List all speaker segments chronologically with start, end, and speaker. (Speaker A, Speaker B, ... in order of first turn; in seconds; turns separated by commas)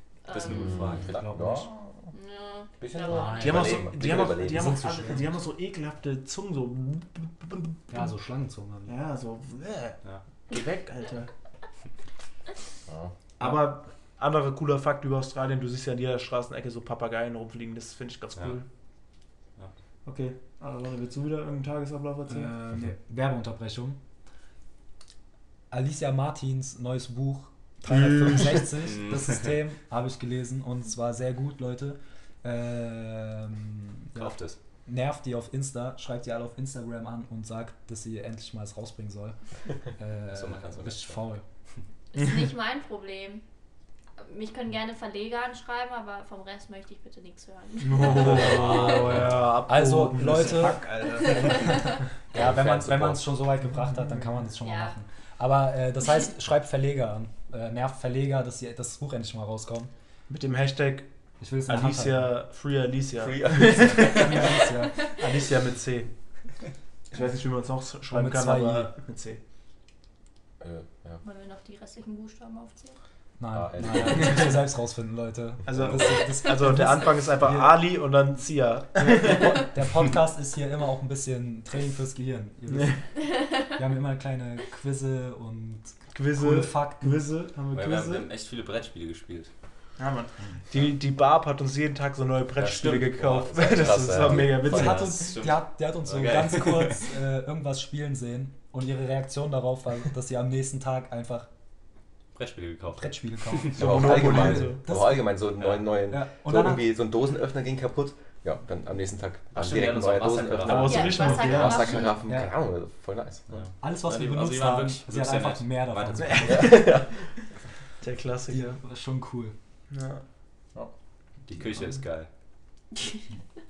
Speaker A: 0.2-0.8, Speaker B: 0.3-1.1, Speaker C: 0.5-2.1, Speaker D: 1.0-1.7, Speaker A: 2.1-3.6, Speaker C: 2.8-4.9, Speaker D: 3.1-3.5, Speaker E: 3.3-8.0, Speaker D: 4.5-5.2, Speaker D: 7.9-8.9, Speaker E: 8.9-11.3, Speaker C: 12.9-13.1, Speaker E: 13.4-18.6, Speaker E: 20.0-22.5, Speaker D: 22.3-24.0, Speaker D: 25.7-34.3, Speaker E: 27.9-28.6, Speaker B: 28.8-29.5, Speaker B: 34.1-34.6, Speaker D: 34.9-39.4, Speaker D: 39.9-41.4, Speaker B: 40.3-41.2, Speaker A: 42.1-43.4, Speaker A: 44.2-49.2, Speaker E: 47.8-51.8, Speaker B: 48.2-49.5, Speaker D: 49.6-50.9, Speaker A: 51.2-51.9, Speaker D: 51.4-51.8, Speaker D: 52.3-59.9, Speaker C: 52.3-52.7, Speaker B: 52.3-53.2, Speaker A: 54.6-54.9, Speaker E: 60.3-61.1, Speaker D: 61.4-62.3, Speaker E: 61.7-66.1, Speaker C: 63.2-64.5, Speaker D: 63.9-65.0, Speaker E: 67.1-69.4, Speaker D: 68.1-68.9, Speaker C: 70.6-71.2, Speaker A: 71.2-73.0, Speaker D: 73.4-77.8, Speaker C: 73.5-74.5, Speaker E: 75.7-79.5, Speaker D: 79.0-83.0, Speaker D: 83.6-87.2, Speaker E: 86.1-88.3, Speaker B: 87.7-89.5, Speaker E: 90.0-95.1, Speaker B: 92.6-97.0, Speaker C: 93.5-95.2, Speaker D: 94.6-101.5, Speaker B: 102.3-103.8, Speaker D: 103.0-105.4, Speaker C: 103.8-113.6, Speaker E: 103.8-104.8, Speaker D: 106.1-106.9, Speaker B: 109.5-111.8, Speaker E: 110.6-112.1, Speaker A: 110.8-112.1, Speaker B: 113.5-116.7, Speaker D: 113.8-116.8, Speaker E: 116.2-117.2, Speaker C: 116.4-117.3, Speaker E: 118.0-118.6, Speaker D: 118.5-119.5, Speaker E: 119.9-120.2, Speaker B: 121.5-122.3